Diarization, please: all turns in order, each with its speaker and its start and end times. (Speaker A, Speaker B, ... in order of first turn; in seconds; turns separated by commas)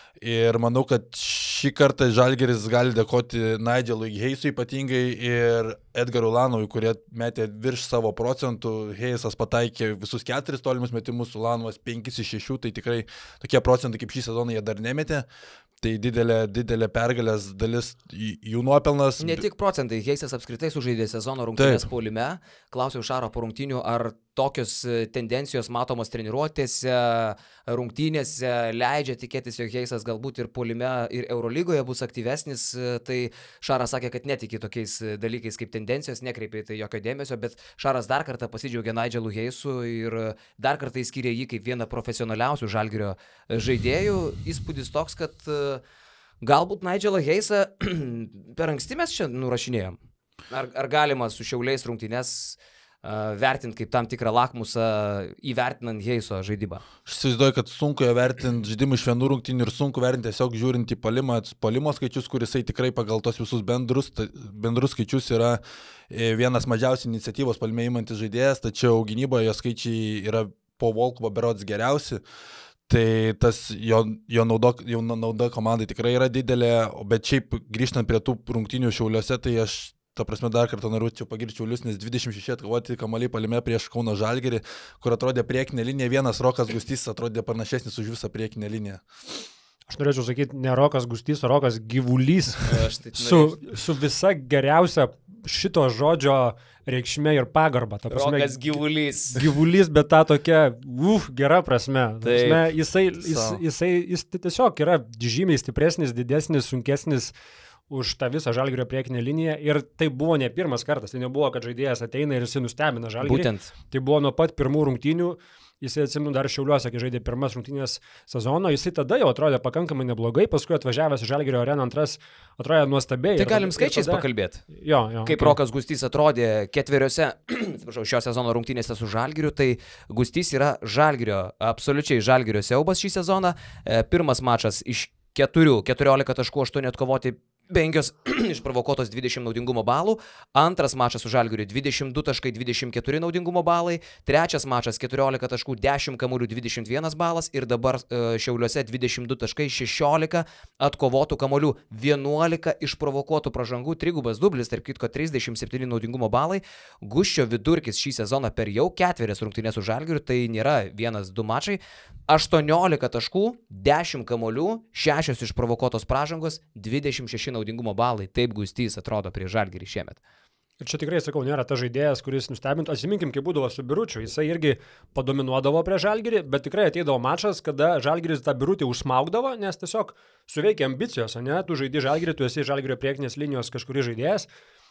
Speaker A: 0.2-15.2, Speaker A: 15.8-19.4, Speaker B: 19.2-45.8, Speaker A: 21.6-21.8, Speaker B: 46.4-50.0, Speaker B: 50.5-56.8, Speaker A: 57.0-72.2, Speaker A: 72.9-89.0, Speaker C: 89.9-98.8, Speaker B: 92.6-93.6, Speaker B: 98.1-99.4, Speaker C: 99.3-107.3, Speaker B: 102.2-102.6, Speaker A: 103.2-103.6, Speaker C: 107.9-125.6, Speaker B: 113.2-113.7, Speaker B: 123.3-124.6, Speaker B: 125.2-170.2, Speaker C: 170.8-184.5